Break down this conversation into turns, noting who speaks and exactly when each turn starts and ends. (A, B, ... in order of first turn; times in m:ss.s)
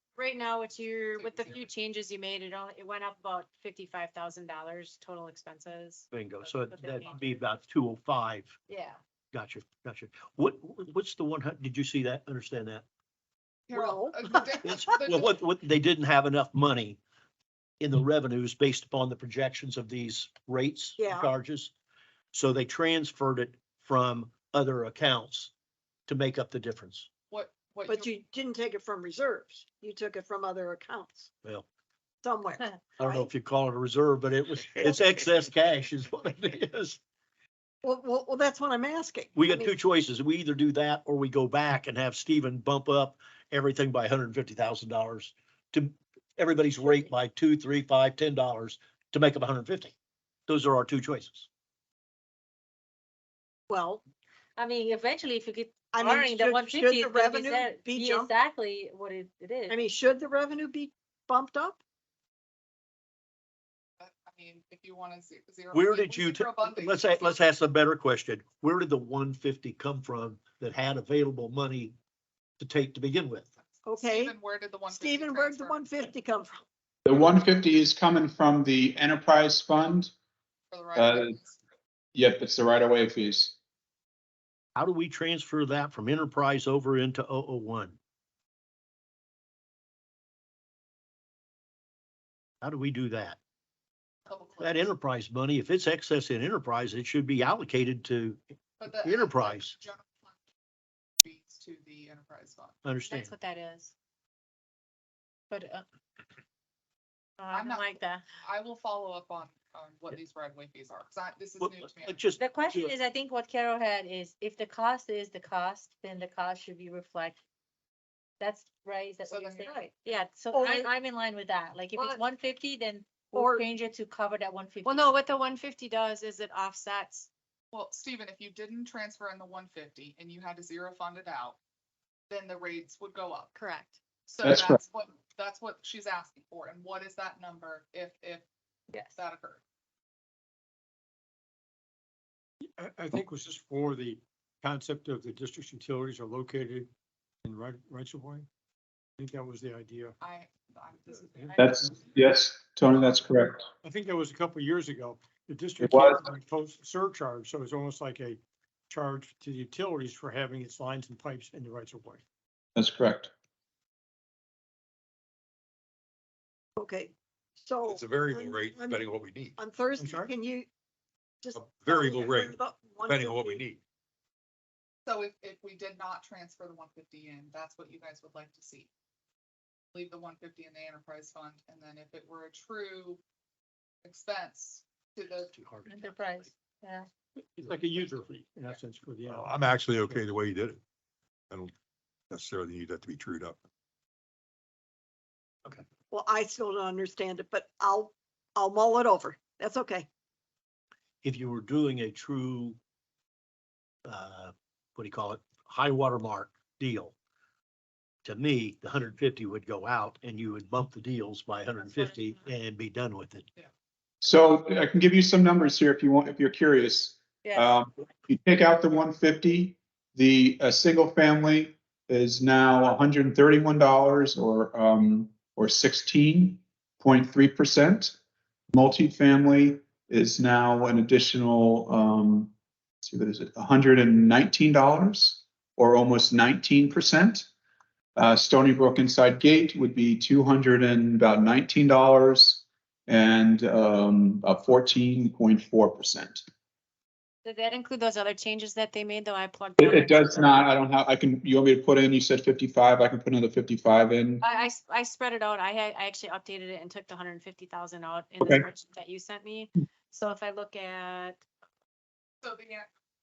0:00.2-0:07.5 A
0:06.1-0:08.6 B
0:08.7-0:09.0 A
0:09.3-0:12.8 B
0:13.7-0:15.4 C
0:13.8-0:14.5 D
0:14.6-0:17.0 B
0:17.8-0:21.7 B
0:21.0-0:21.3 D
0:22.3-0:25.5 B
0:26.1-0:27.1 B
0:27.3-0:28.1 C
0:27.9-0:31.3 D
0:32.2-0:33.3 D
0:33.0-0:37.0 B
0:37.8-0:39.7 D
0:39.3-0:50.0 B
0:50.5-0:51.5 B
0:53.7-0:54.0 D
0:54.6-0:59.7 E
0:55.9-0:58.3 D
0:59.7-1:01.8 D
1:04.0-1:07.5 C
1:05.7-1:11.9 B
1:12.6-1:13.5 B
1:13.7-1:15.8 C
1:13.8-1:14.3 D
1:14.9-1:16.6 D
1:17.1-1:20.1 F
1:20.7-1:21.6 C
1:21.0-1:21.4 F
1:22.1-1:23.5 F
1:24.8-1:28.0 B
1:32.6-1:33.4 B
1:34.2-1:34.9 C
1:34.6-1:38.4 B
1:38.8-1:40.4 C
1:39.0-1:39.8 B
1:41.2-1:42.8 C
1:42.8-1:43.3 B
1:43.1-1:43.9 A
1:45.5-1:45.8 A
1:47.5-1:52.3 C
1:47.5-1:48.2 A
1:51.6-1:52.9 B
1:52.4-1:57.4 E
1:58.4-2:05.2 E
1:59.3-2:00.0 C
2:00.5-2:00.9 D
2:02.0-2:02.2 D
2:03.3-2:03.7 D
2:04.8-2:07.3 A
2:07.7-2:11.6 C
2:12.3-2:13.5 C
2:13.5-2:14.0 A
2:14.3-2:18.4 C
2:14.4-2:14.8 F
2:19.0-2:19.6 C
2:22.6-2:26.9 G
2:27.4-2:28.5 G
2:29.2-2:30.2 G
2:30.2-2:32.1 C
2:31.5-2:33.6 F
2:33.8-2:42.2 G
2:35.8-2:36.2 F
2:42.8-2:43.3 F
2:46.8-2:49.0 D
2:47.9-2:49.5 H
2:49.6-2:50.7 D
2:50.0-2:50.3 G
2:51.4-2:53.6 D
2:51.5-2:53.8 H
2:55.0-2:58.9 C
2:59.9-3:03.2 C
3:04.0-3:05.5 C
3:05.5-3:06.5 B
3:05.8-3:07.1 E
3:07.5-3:10.3 G
3:09.3-3:10.8 H
3:12.3-3:13.6 H
3:16.1-3:20.1 D
3:21.2-3:22.8 B
3:24.0-3:27.1 B
3:28.2-3:33.5 B
3:34.2-3:48.2 F
3:37.4-3:37.7 E
3:48.7-3:52.5 F
3:53.0-3:57.5 F
3:58.2-4:06.4 F
4:07.4-4:10.6 A
4:09.8-4:14.4 F
4:14.4-4:21.4 A
4:22.4-4:22.9 C